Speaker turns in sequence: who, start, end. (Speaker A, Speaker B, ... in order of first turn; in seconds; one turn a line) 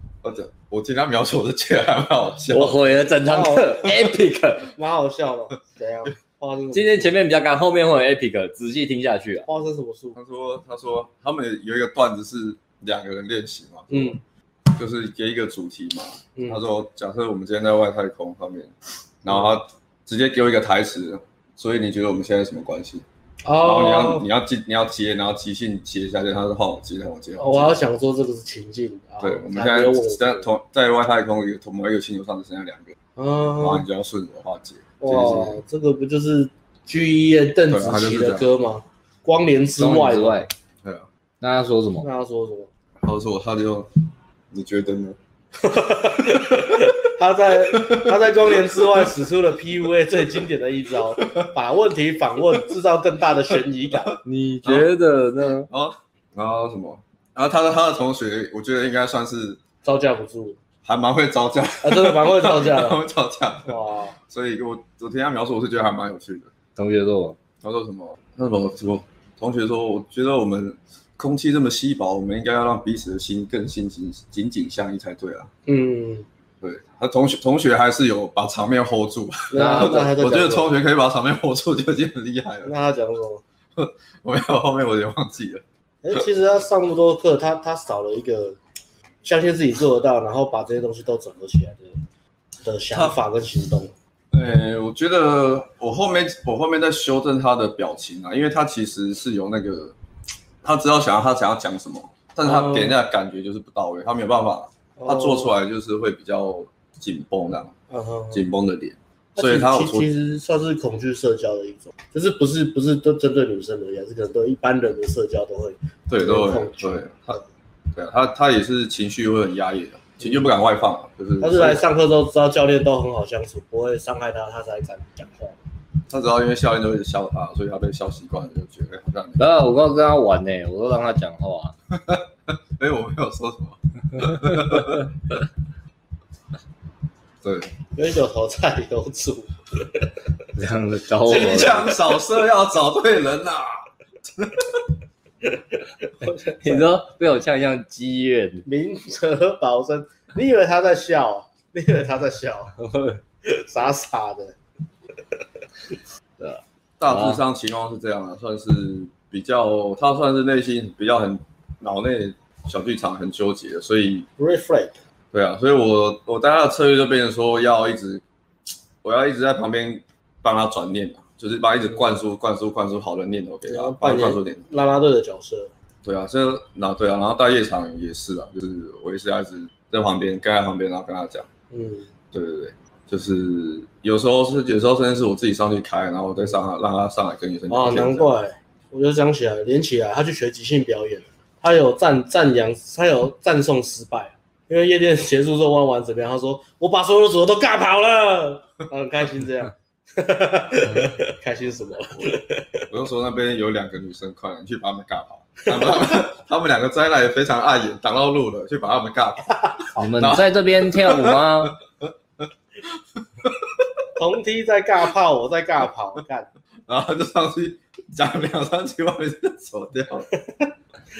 Speaker A: 0.2-2.8
Speaker B: 2.5-4.7
Speaker C: 3.2-4.1
Speaker C: 4.7-7.2
Speaker B: 6.7-9.5
Speaker C: 9.5-10.2
Speaker A: 10.1-14.2
Speaker C: 13.9-14.2
Speaker A: 14.7-18.7
Speaker C: 16.4-16.6
Speaker A: 19.2-23.0
Speaker C: 23.4-24.2
Speaker A: 23.6-27.8
Speaker C: 27.4-30.4
Speaker A: 29.2-33.0
Speaker C: 33.2-33.9
Speaker A: 33.6-35.6
Speaker C: 35.0-40.5
Speaker A: 37.7-38.5
Speaker B: 39.8-40.5
Speaker B: 41.4-42.1
Speaker C: 42.0-42.7
Speaker A: 43.0-45.2
Speaker C: 45.6-54.2
Speaker A: 46.2-46.9
Speaker A: 47.7-49.1
Speaker A: 51.2-51.5
Speaker A: 53.9-54.9
Speaker B: 54.2-55.7
Speaker A: 55.7-59.6
Speaker C: 59.8-60.6
Speaker A: 60.8-66.5
Speaker C: 61.8-63.0
Speaker C: 63.7-64.2
Speaker B: 66.8-67.4
Speaker A: 67.6-75.5
Speaker C: 75.7-76.3
Speaker A: 76.6-82.7
Speaker C: 79.5-80.7
Speaker B: 79.5-80.0
Speaker C: 82.6-83.4
Speaker A: 83.8-86.2
Speaker C: 86.0-88.6
Speaker C: 89.2-92.0
Speaker C: 92.6-93.9
Speaker A: 94.3-100.0
Speaker A: 100.6-107.7
Speaker C: 102.5-102.9
Speaker C: 105.0-105.5
Speaker C: 107.9-108.4
Speaker A: 108.3-110.1
Speaker C: 109.3-117.4
Speaker A: 116.1-117.4
Speaker A: 117.9-121.8
Speaker C: 121.4-125.6
Speaker A: 126.1-129.4
Speaker B: 129.4-131.7
Speaker A: 131.9-135.3
Speaker A: 137.4-137.7
Speaker C: 137.9-140.1
Speaker B: 140.5-141.9
Speaker A: 141.2-144.9
Speaker C: 146.1-146.9
Speaker B: 146.6-148.7
Speaker C: 148.7-152.8
Speaker B: 152.8-153.2
Speaker C: 153.4-154.5
Speaker B: 156.4-157.4
Speaker A: 157.0-164.3
Speaker C: 164.4-165.0
Speaker A: 165.3-168.2
Speaker A: 169.0-174.6
Speaker C: 173.7-175.7
Speaker A: 176.0-181.5
Speaker C: 181.7-182.1
Speaker A: 182.3-188.3
Speaker C: 187.7-202.8
Speaker A: 202.9-212.1
Speaker C: 205.7-206.2
Speaker B: 209.9-211.8
Speaker A: 212.8-213.9
Speaker C: 214.2-216.5
Speaker A: 216.9-220.3